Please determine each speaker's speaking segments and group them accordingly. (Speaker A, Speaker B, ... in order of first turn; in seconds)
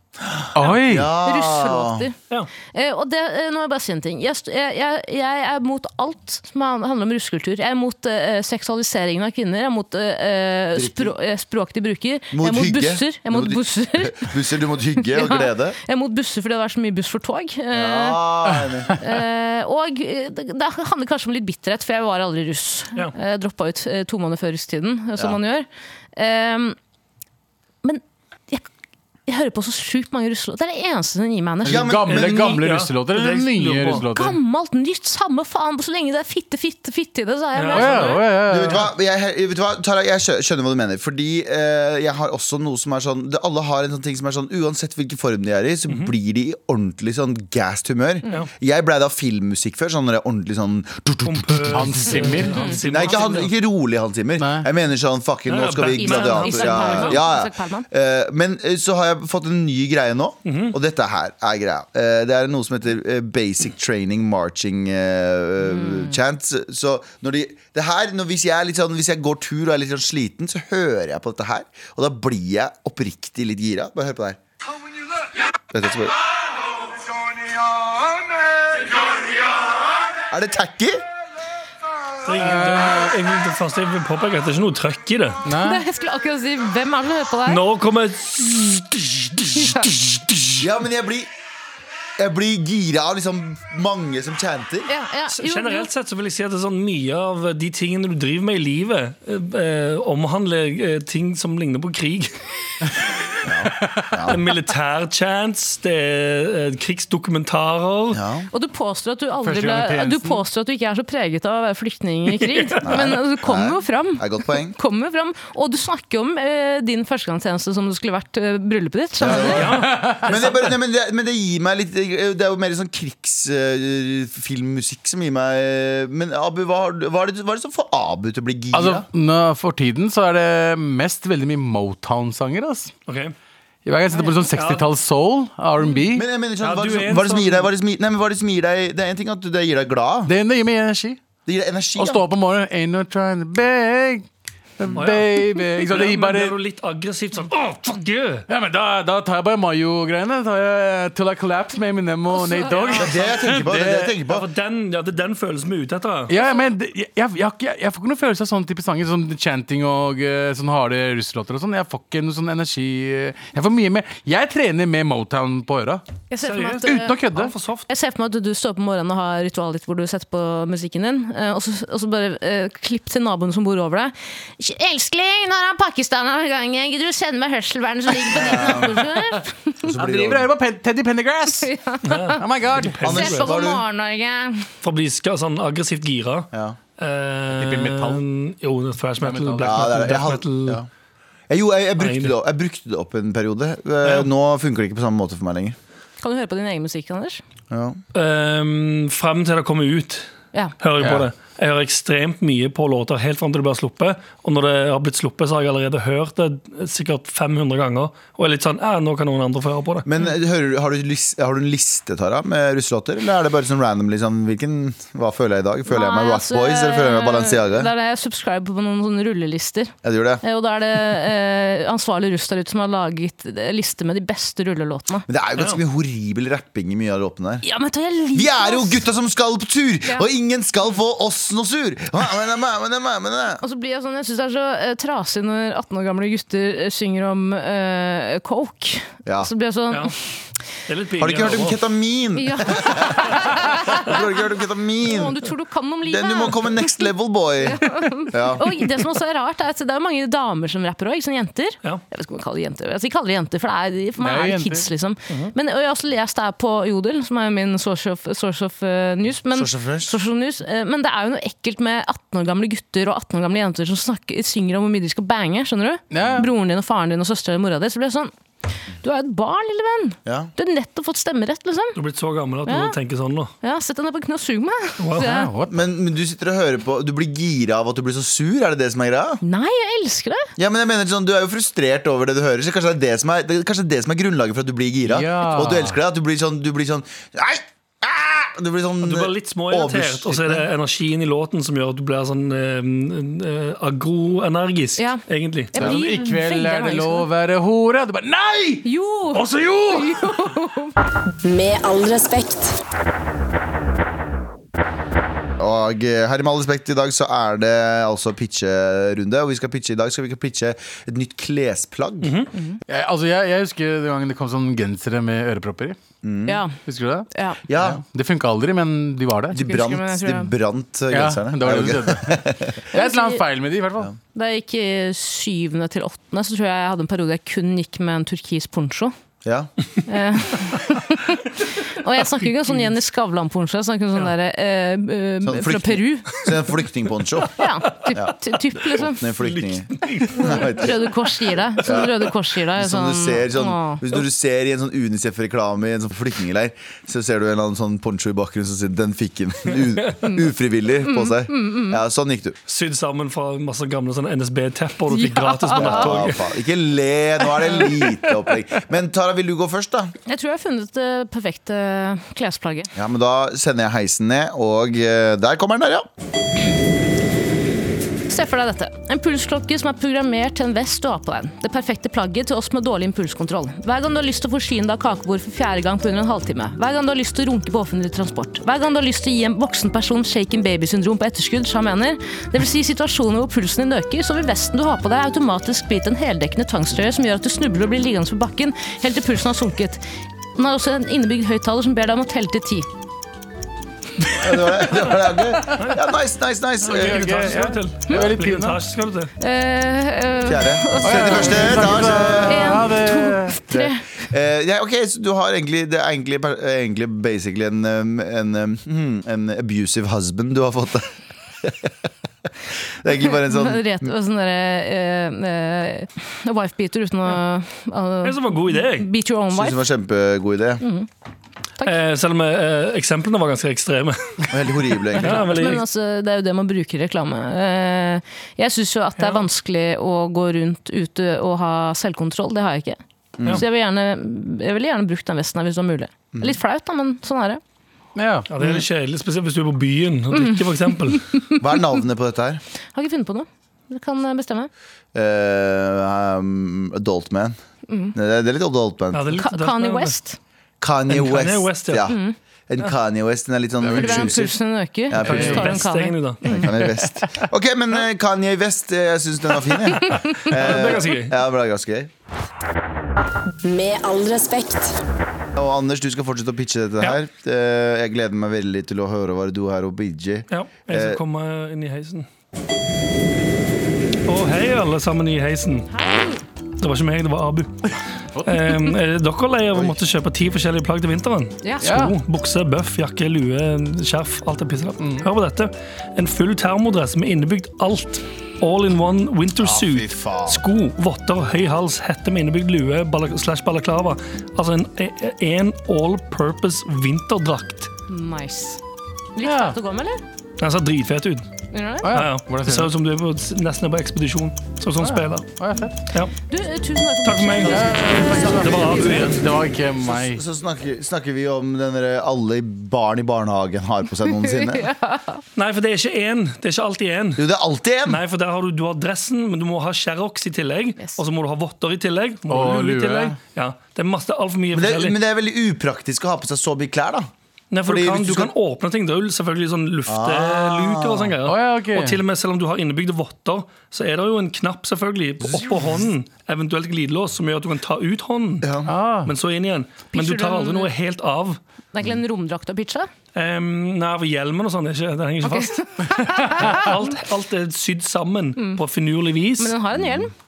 Speaker A: 0.2-2.1, 10.7-11.1, 12.3-15.8, 17.7-19.0, 31.6-32.6, 38.5-51.9, 52.9-74.4, 75.7-76.2, 77.4-78.2, 80.3-81.0, 90.6-91.3, 92.2-94.9, 103.4-104.4, 108.1-108.5, 112.8-114.8, 119.2-129.1, 136.1-140.3, 141.4-142.2, 152.9-154.4, 178.3-179.1, 179.8-180.5, 183.0-183.8, 189.6-190.9, 191.5-195.8, 197.7-198.0, 210.0-217.9, 220.0-220.4, 225.3-227.6, 228.3-233.6, 239.2-239.5, 241.2-245.4, 246.0-248.8, 259.5-260.1, 266.1-266.5, 270.2-270.5, 275.7-279.4, 280.6-290.7, 305.6-312.4, 316.2-316.6, 317.7-318.0, 319.5-322.8, 329.4-329.7, 335.4-341.0, 341.8-352.6, 355.8-360.1, 362.9-366.1, 394.4-397.5, 400.4-402.8, 403.7-411.9, 412.9-414.1, 419.5-420.8, 424.5-425.6, 433.4-433.6, 441.6-442.6, 445.1-447.6, 448.1-449.4, 450.8-454.5, 455.1-455.8, 456.6-462.1, 465.5-471.2, 489.6-490.6, 508.3-509.4, 510.0-514.9, 517.4-518.2, 524.7-527.3, 527.9-528.5, 530.1-531.3, 535.5-535.9, 538.6-538.9
Speaker B: 0.5-1.1, 31.7-34.4, 37.7-38.8, 51.7-52.8, 54.4-54.7, 82.4-83.1, 85.5-85.8, 109.4-110.4, 119.7-120.3, 128.7-132.9, 133.8-136.3, 140.3-141.2, 142.0-144.3, 144.8-146.6, 148.5-154.2, 156.3-166.0, 166.8-167.5, 180.0-181.7, 182.4-183.0, 187.5-188.2, 189.2-189.9, 254.2-254.9, 266.1-266.5, 275.2-275.8, 285.1-286.0, 295.8-300.4, 312.9-316.0, 316.8-319.6, 321.1-324.1, 396.8-398.8, 401.0-403.6, 438.1-438.5, 453.8-454.3, 455.2-455.7, 456.7-457.4, 478.3-478.9, 481.8-482.1, 485.0-485.3, 499.4-499.8, 502.0-502.9, 505.0-506.0, 507.6-510.4, 522.5-523.4, 531.4-532.2, 538.9-539.3
Speaker C: 1.2-2.1, 2.7-14.3, 15.0-18.2, 19.0-26.8, 27.8-28.7, 29.3-31.9, 34.1-38.2, 56.0-57.9, 65.6-66.2, 85.6-87.6, 89.5-89.9, 94.9-95.9, 108.5-119.7, 152.3-153.1, 166.3-167.1, 167.9-179.8, 181.5-182.4, 183.1-184.7, 196.2-197.4, 215.9-225.2, 227.6-229.0, 233.6-240.1, 242.3-244.4, 245.0-268.3, 269.0-272.0, 272.6-273.0, 273.6-275.5, 279.4-280.5, 295.0-297.2, 298.8-300.9, 312.5-312.8, 316.5-316.8, 317.3-317.6, 319.5-320.5, 322.9-323.4, 324.3-329.1, 330.1-336.4, 337.5-339.3, 340.5-344.0, 351.0-352.0, 355.1-356.0, 360.2-362.9, 368.3-390.0, 390.6-392.9, 399.4-401.9, 402.5-404.1, 413.2-419.8, 420.8-421.1, 425.2-437.6, 440.3-441.6, 442.9-444.7, 447.9-448.1, 449.4-450.4, 452.1-452.3, 453.9-456.6, 460.0-460.4, 475.9-476.4, 481.6-481.9, 498.1-498.8, 499.4-500.2, 501.7-502.1, 506.5-509.0, 514.3-515.4, 540.1-540.9, 541.9-543.1, 545.4-546.9, 548.5-548.8, 549.6-550.3
Speaker D: 32.1-34.1, 37.5-38.2, 51.2-53.5, 55.5-57.2, 60.5-60.8, 82.2-85.4, 87.5-90.6, 95.3-102.3, 104.2-108.2, 112.3-112.8, 119.3-120.4, 133.1-133.3, 134.5-134.9, 136.6-137.7, 144.9-148.5, 154.3-156.3, 166.4-167.9, 182.0-183.4, 184.8-190.8, 192.0-192.3, 194.0-194.3, 198.1-200.3, 200.8-210.1, 240.9-241.8, 271.9-273.5, 275.0-275.3, 289.0-295.9, 312.2-312.5, 332.4-332.9, 339.4-341.9, 352.7-356.4, 395.8-396.0, 396.8-399.3, 418.2-419.1, 421.8-424.5, 425.2-425.8, 429.2-429.4, 438.5-441.4, 449.1-450.1, 451.1-452.1, 455.2-456.7, 460.4-461.4, 470.5-472.3, 474.2-475.9, 476.8-477.7, 478.4-497.9, 500.6-501.5, 502.1-505.5, 507.2-507.9, 508.4-509.4, 515.5-517.5, 518.0-525.2, 527.7-538.7, 539.2-541.6, 543.3-545.9, 546.4-549.7
Speaker E: 301.4-302.8, 463.6-464.9